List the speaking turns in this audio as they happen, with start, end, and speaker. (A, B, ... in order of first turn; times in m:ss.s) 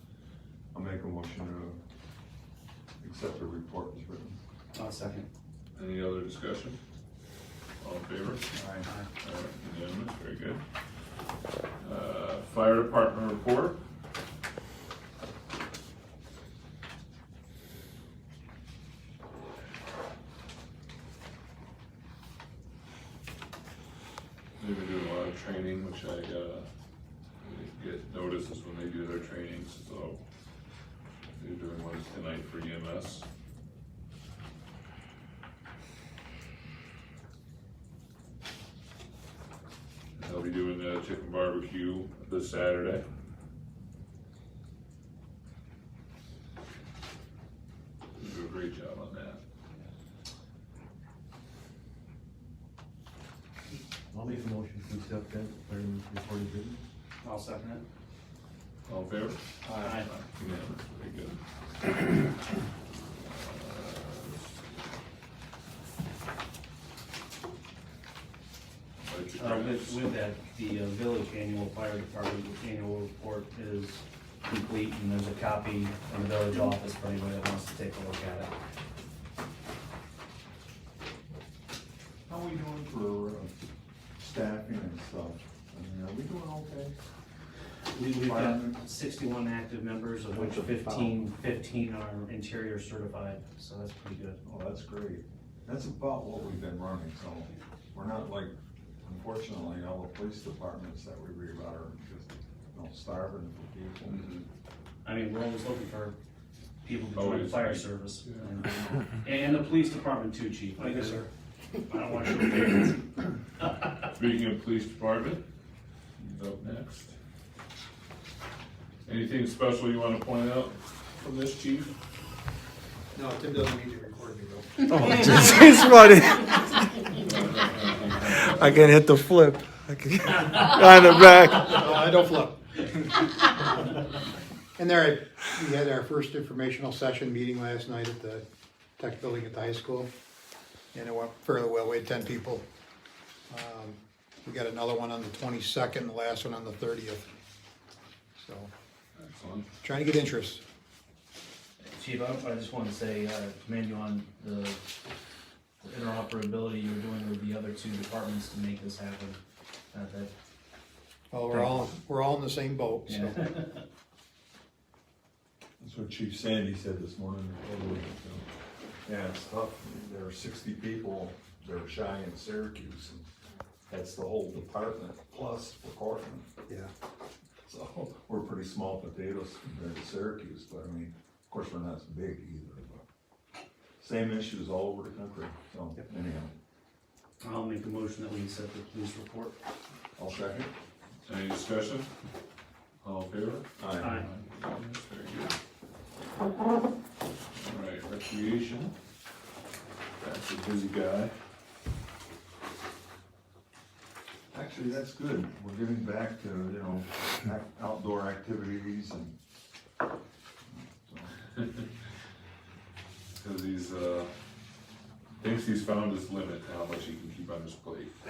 0:00.7-0:01.8 A
0:03.0-0:04.4 A
0:04.7-0:05.3 B
0:05.8-0:06.8 C
0:07.8-0:08.5 C
0:08.5-0:08.9 A
0:09.2-0:10.6 C
0:11.8-0:13.8 C
0:24.6-0:26.7 C
0:27.4-0:30.2 C
0:31.4-0:33.2 C
0:40.2-0:43.0 C
0:48.2-0:49.4 C
0:54.1-0:56.8 D
0:57.2-0:57.8 B
0:58.9-1:02.2 C
0:59.6-1:00.0 A
0:59.8-1:00.1 B
1:03.3-1:04.4 C
1:09.0-1:10.0 C
1:09.4-1:18.5 B
1:22.3-1:23.5 A
1:24.2-1:27.0 A
1:27.9-1:34.4 B
1:28.2-1:28.8 A
1:30.3-1:31.2 A
1:34.4-1:44.2 A
1:44.0-1:44.5 C
1:45.0-1:46.2 B
1:46.8-1:51.3 B
1:47.1-1:48.6 C
1:51.9-1:53.1 B
1:54.1-1:55.4 C
1:56.2-1:57.1 C
1:59.1-2:01.9 C
2:03.1-2:05.1 E
2:04.9-2:07.0 F
2:07.2-2:08.9 C
2:08.3-2:11.7 F
2:11.6-2:14.0 E
2:14.8-2:18.4 E
2:19.0-2:20.1 E
2:20.9-2:22.6 E
2:23.5-2:27.3 E
2:28.4-2:28.7 E
2:29.2-2:29.7 C
2:29.8-2:30.6 E
2:31.9-2:34.8 B
2:35.8-2:39.4 B
2:39.9-2:40.3 B
2:41.3-2:43.6 E
2:41.5-2:41.9 B
2:43.1-2:43.8 B
2:45.8-2:48.4 A
2:49.1-2:53.3 A
2:53.9-2:56.5 A
2:57.6-3:03.0 A
3:04.0-3:06.5 A
3:07.4-3:09.6 B
3:10.2-3:10.7 A
3:11.3-3:12.1 C
3:13.0-3:15.6 C
3:13.8-3:14.2 A
3:14.0-3:14.3 B
3:17.6-3:18.9 C
3:20.2-3:21.3 C
3:24.5-3:29.4 A
3:30.7-3:31.4 A
3:33.4-3:34.3 C
3:35.4-3:38.2 C